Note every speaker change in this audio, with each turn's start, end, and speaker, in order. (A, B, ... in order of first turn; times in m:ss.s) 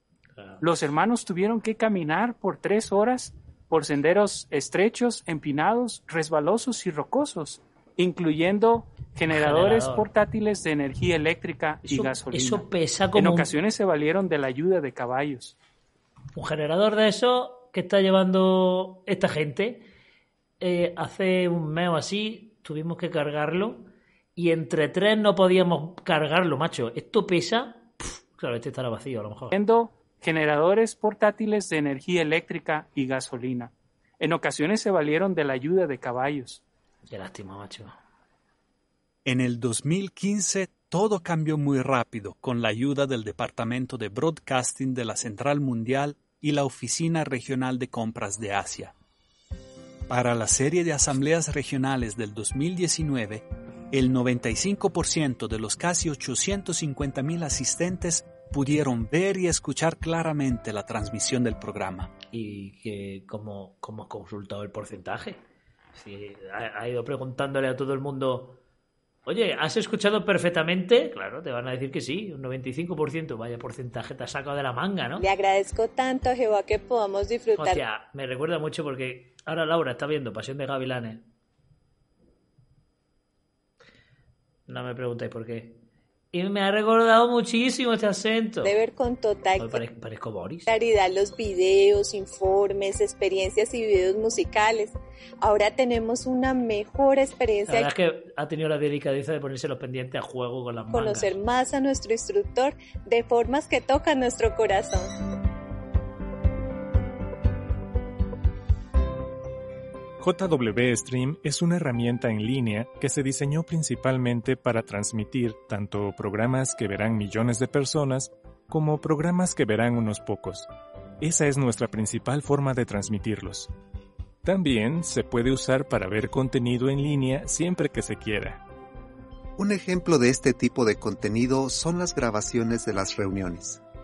0:00.4-0:00.6 A
0:00.6-0:15.6 B
0:09.2-0:10.1 A
0:11.8-0:13.5 A
0:16.4-0:19.9 A
0:20.6-0:29.6 A
0:29.5-0:36.6 B
0:37.1-0:38.0 A
0:39.3-0:48.9 C
0:50.1-1:02.1 C
1:02.3-1:05.4 A
1:05.9-1:08.6 A
1:09.3-1:15.3 A
1:15.2-1:17.8 D
1:17.6-1:21.2 A
1:24.7-1:25.8 A
1:26.3-1:28.8 A
1:28.6-1:29.8 D
1:29.6-1:30.7 A
1:30.7-1:37.9 D
1:37.7-1:41.3 A
1:40.9-1:45.2 D
1:50.2-2:00.7 E
2:01.2-2:03.7 E
2:04.4-2:08.6 E
2:09.6-2:13.8 F